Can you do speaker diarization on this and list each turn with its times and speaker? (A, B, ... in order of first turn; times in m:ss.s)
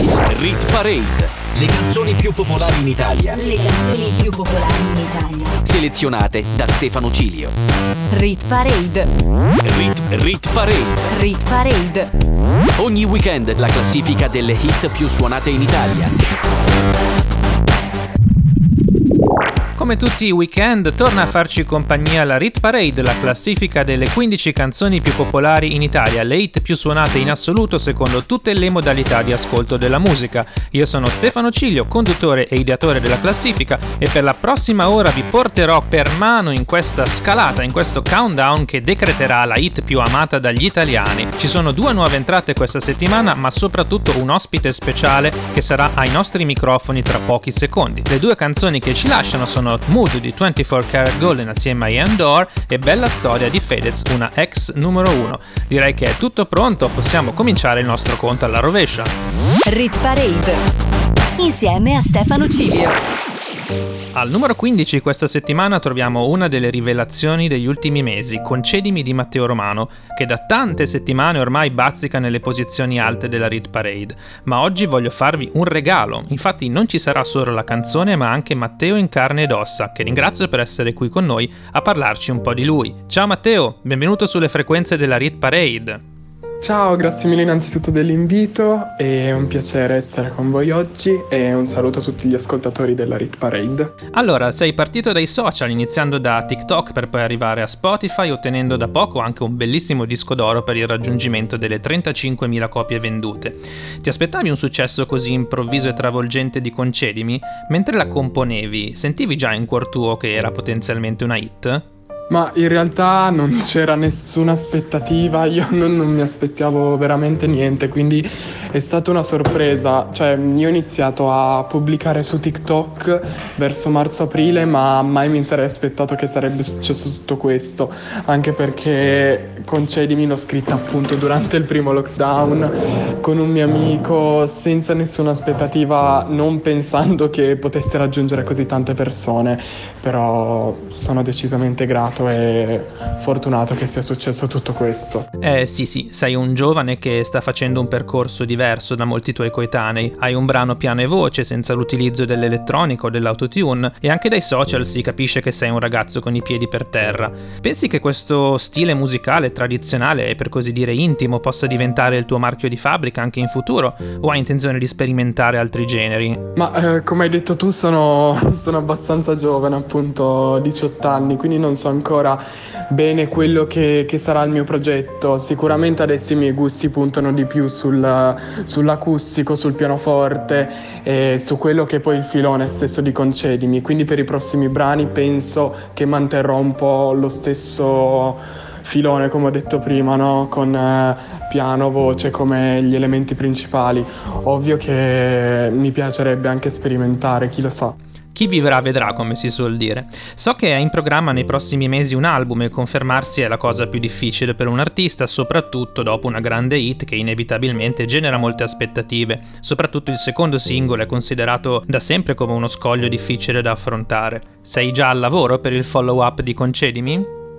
0:00.3-0:03.4 A
0:03.3-0:05.6 B
0:05.6-0:07.5 A
0:08.1-0:09.1 B
0:09.6-0:11.0 A
0:11.1-0:12.1 B
0:12.8-0:16.2 A
0:19.8-0:59.1 C
0:59.7-1:00.6 B
1:01.4-1:03.0 B
1:04.1-1:26.0 C
1:26.6-1:33.9 D
1:34.1-1:51.8 C
1:52.3-2:25.3 D
2:25.4-2:46.4 C
2:46.6-3:18.0 D
3:18.3-3:37.3 C